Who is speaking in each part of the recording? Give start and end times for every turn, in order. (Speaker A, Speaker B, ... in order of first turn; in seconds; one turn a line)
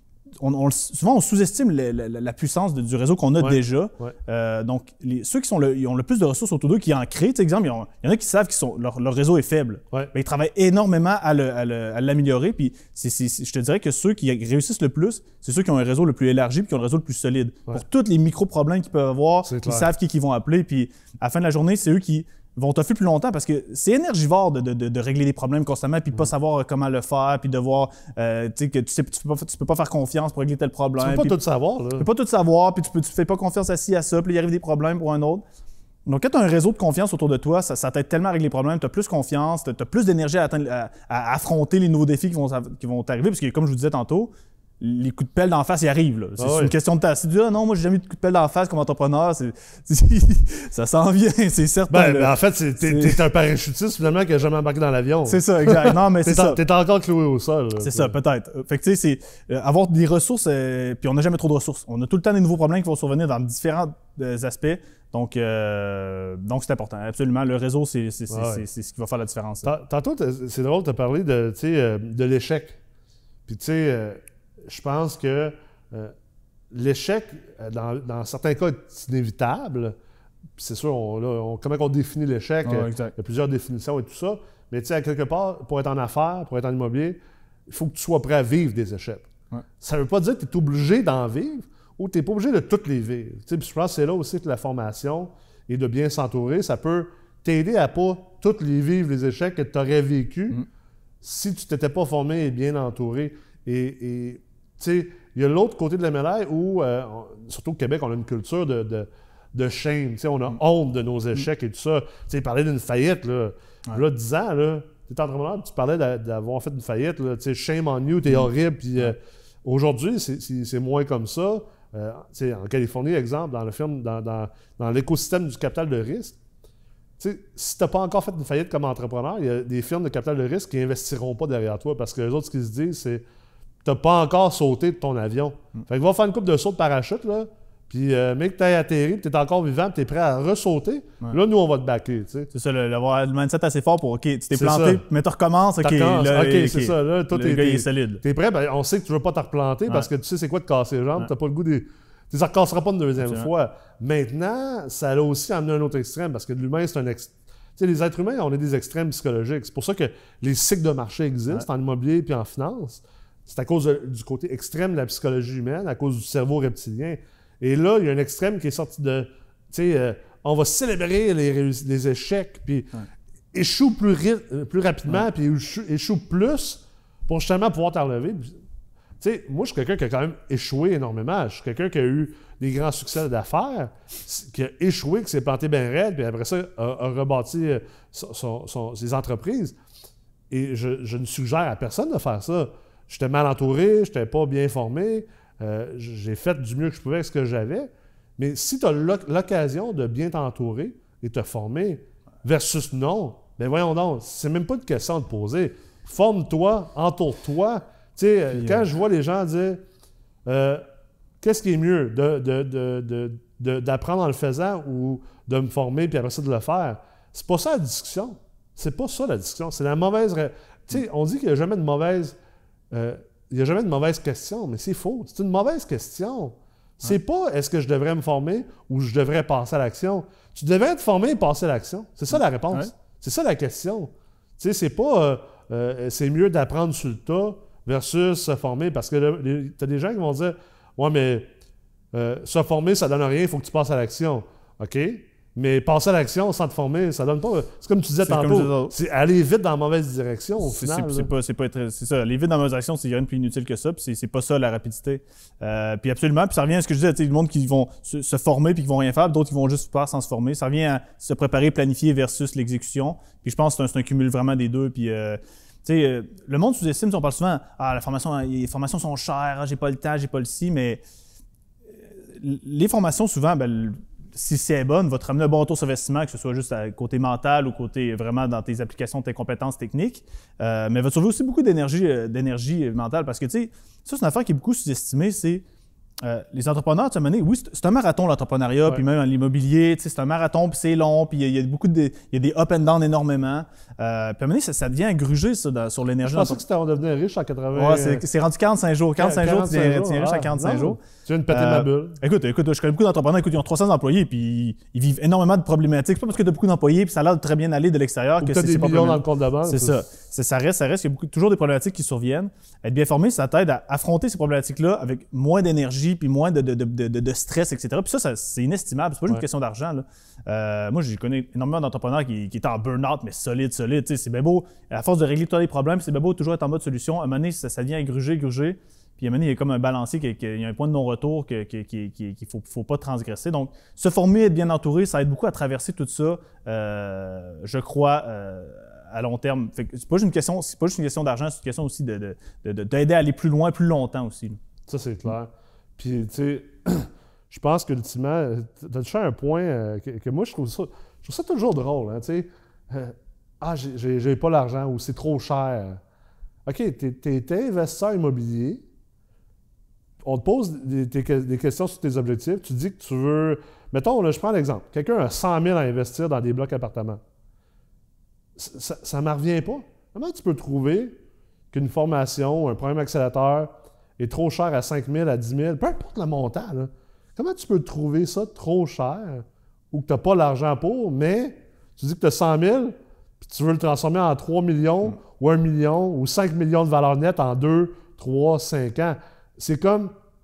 Speaker A: 0.4-31.4
Speaker B: 3.4-4.1
Speaker B: 19.4-19.9
Speaker B: 31.0-32.0
Speaker A: 32.0-35.4
Speaker A: 36.0-52.3
Speaker B: 46.4-46.7
Speaker B: 51.9-58.2
Speaker A: 52.8-53.2
Speaker A: 55.2-56.6
Speaker A: 57.8-69.7
Speaker B: 68.3-68.6
Speaker B: 69.6-72.8
Speaker B: 73.5-76.1
Speaker B: 76.7-79.9
Speaker B: 80.6-87.2
Speaker A: 82.6-83.1
Speaker B: 87.7-89.3
Speaker B: 89.8-100.6
Speaker B: 101.2-126.4
Speaker A: 118.3-119.1
Speaker B: 127.2-133.2
Speaker B: 133.8-142.5
Speaker A: 142.5-148.2
Speaker B: 144.5-145.0
Speaker B: 145.8-173.0
Speaker A: 153.2-153.5
Speaker B: 173.5-178.6
Speaker B: 179.2-189.8
Speaker B: 190.5-209.8
Speaker A: 208.5-208.9
Speaker B: 210.4-210.8
Speaker B: 211.4-222.3
Speaker B: 222.9-241.5
Speaker B: 242.1-251.3
Speaker A: 248.2-248.9
Speaker A: 250.6-271.0
Speaker A: 271.9-285.6
Speaker A: 286.2-296.6
Speaker B: 296.2-298.2
Speaker A: 297.7-344.6
Speaker B: 299.2-302.2
Speaker B: 308.4-310.0
Speaker B: 344.9-356.0
Speaker B: 356.6-358.8
Speaker B: 360.2-367.2
Speaker B: 368.6-371.1
Speaker B: 371.7-390.1